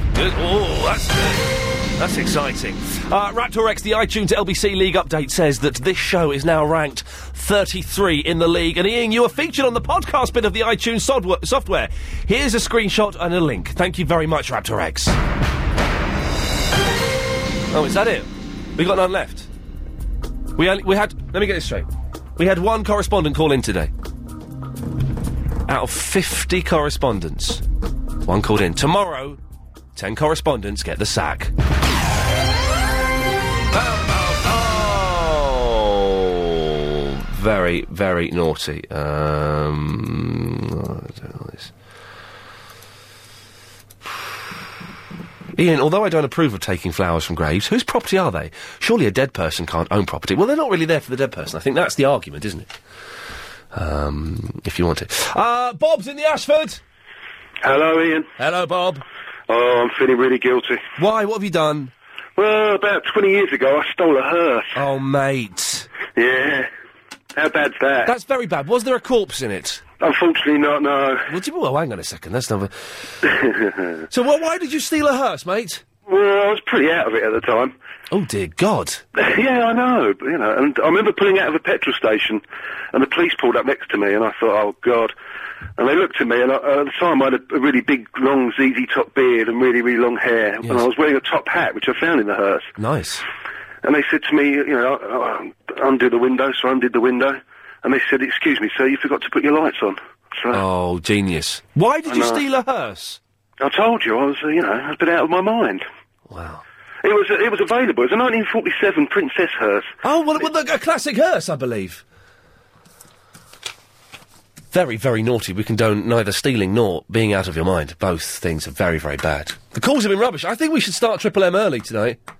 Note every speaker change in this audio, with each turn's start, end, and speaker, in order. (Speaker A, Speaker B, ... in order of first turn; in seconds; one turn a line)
Speaker A: 0.1-15.2
Speaker A: 17.7-19.5
Speaker A: 20.6-21.9
Speaker A: 22.4-23.9
Speaker A: 25.7-27.6
Speaker A: 28.2-29.4
Speaker A: 29.9-31.5
Speaker A: 33.7-41.7
Speaker A: 45.5-52.7
Speaker A: 53.7-56.8
Speaker B: 57.6-58.2
Speaker A: 58.4-59.0
Speaker B: 59.5-60.8
Speaker A: 61.0-61.9
Speaker B: 62.4-64.7
Speaker A: 64.7-65.9
Speaker B: 66.2-66.6
Speaker B: 67.4-68.0
Speaker A: 68.0-69.8
Speaker B: 70.0-71.2
Speaker A: 71.3-72.7
Speaker A: 74.1-75.8
Speaker B: 76.1-77.7
Speaker A: 78.1-79.0
Speaker B: 79.2-82.4
Speaker B: 82.9-85.1
Speaker B: 85.8-92.7
Speaker A: 92.8-93.2
Speaker B: 93.8-100.5
Speaker A: 100.5-103.2
Speaker B: 102.1-102.4
Speaker B: 103.6-105.8
Speaker A: 106.3-106.6
Speaker B: 107.0-109.9
Speaker A: 110.0-112.0
Speaker A: 114.7-122.2